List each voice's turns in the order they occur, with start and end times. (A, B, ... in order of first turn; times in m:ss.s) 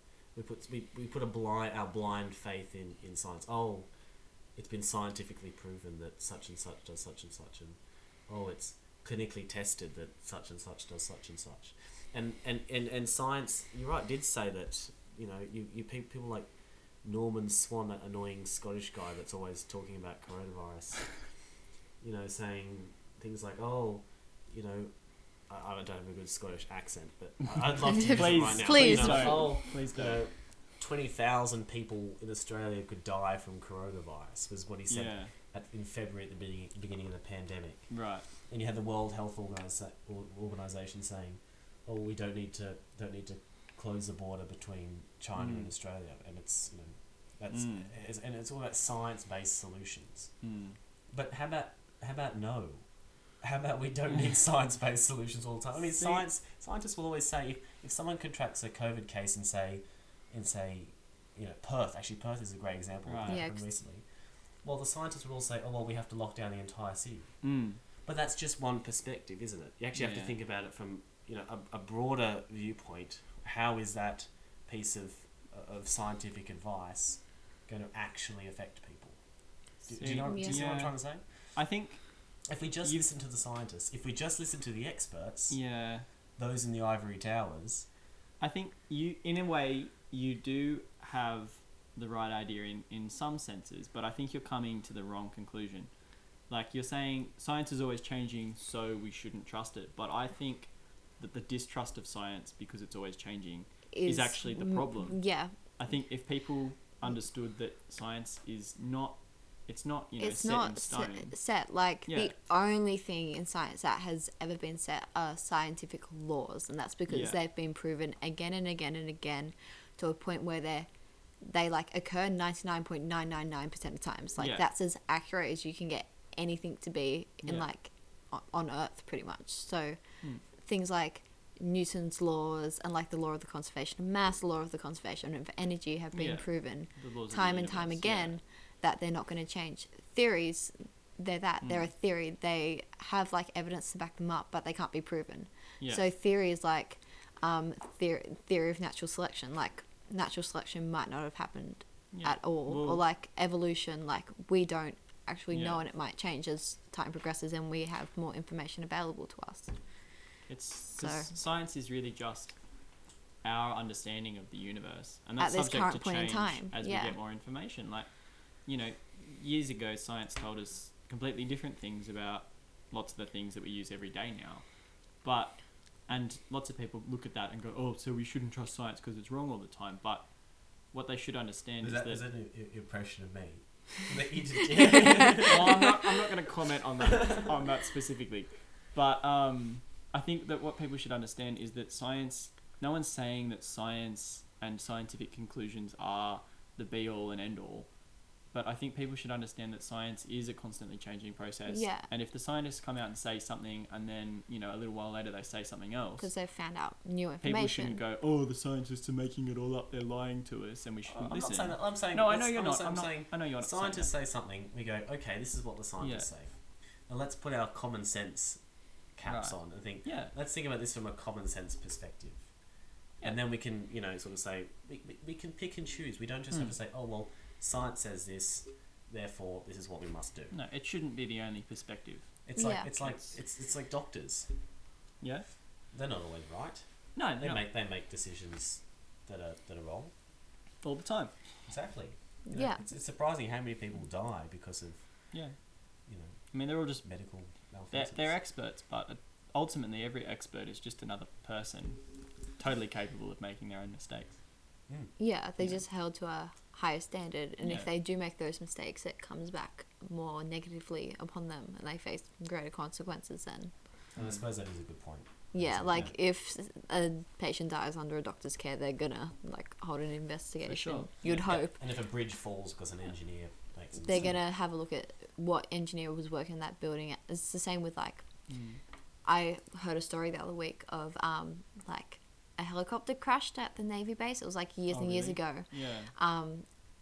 0:00.3-0:03.9 A
0:04.6-0:16.5 A
0:17.0-0:21.2 A
0:22.0-0:24.9 A
0:25.5-0:37.9 A
0:27.9-0:29.6 B
0:28.1-0:30.2 C
0:34.9-0:35.3 C
0:37.9-0:38.2 C
0:38.5-0:50.3 A
0:45.4-0:45.7 C
0:47.5-0:47.9 C
0:50.4-0:50.8 C
0:51.1-0:52.8 A
0:53.4-1:04.0 A
0:55.9-0:56.2 C
1:03.0-1:03.4 C
1:03.3-1:03.6 B
1:04.6-1:07.3 A
1:07.4-1:07.8 C
1:08.0-1:19.2 A
1:09.9-1:10.3 C
1:19.8-1:21.2 A
1:19.9-1:21.0 C
1:20.2-1:20.7 B
1:21.5-1:22.0 C
1:22.5-1:25.6 A
1:25.5-1:26.0 C
1:26.4-1:27.9 A
1:28.4-1:35.9 C
1:36.5-1:45.2 C
1:43.9-1:45.5 B
1:45.8-1:51.3 C
1:50.2-2:00.9 B
1:52.1-1:52.3 C
1:57.1-1:57.4 C
2:01.4-2:10.0 B
2:04.4-2:04.6 C
2:07.4-2:07.7 C
2:10.6-2:39.7 B
2:16.1-2:18.4 C
2:21.6-2:21.9 C
2:32.1-2:33.0 C
2:35.5-2:35.8 C
2:40.5-2:42.6 C
2:40.9-2:41.3 B
2:43.4-2:54.7 C
2:45.4-2:47.2 B
2:55.2-3:02.2 C
3:01.8-3:05.8 A
3:05.4-3:17.9 C
3:07.0-3:07.5 A
3:18.5-3:26.3 C
3:21.7-3:22.1 B
3:26.2-3:28.0 B
3:27.4-3:34.1 C
3:31.1-3:38.6 A
3:36.0-3:36.3 C
3:39.1-3:42.5 A
3:39.2-3:40.3 C
3:43.2-3:50.5 A
3:50.5-3:52.3 C
3:52.4-3:54.5 A
3:52.6-3:52.9 B
3:53.0-3:53.3 C
3:55.2-3:55.4 C
3:55.9-3:56.8 A
3:57.1-3:57.6 C
3:57.4-4:00.1 A
4:00.8-4:01.3 C
4:01.7-4:05.0 A
4:02.5-4:02.8 B
4:06.0-4:06.4 A
4:06.5-4:07.1 C
4:07.0-4:08.4 A
4:07.9-4:12.0 C
4:12.6-4:14.4 C
4:14.9-4:15.1 A
4:15.2-4:23.7 B
4:17.6-4:17.9 C
4:24.2-4:26.1 A
4:25.5-4:31.8 B
4:30.6-4:31.1 C
4:31.2-4:34.4 A
4:34.0-4:38.2 B
4:38.5-4:38.8 C
4:39.2-4:46.6 B
4:44.9-4:46.1 C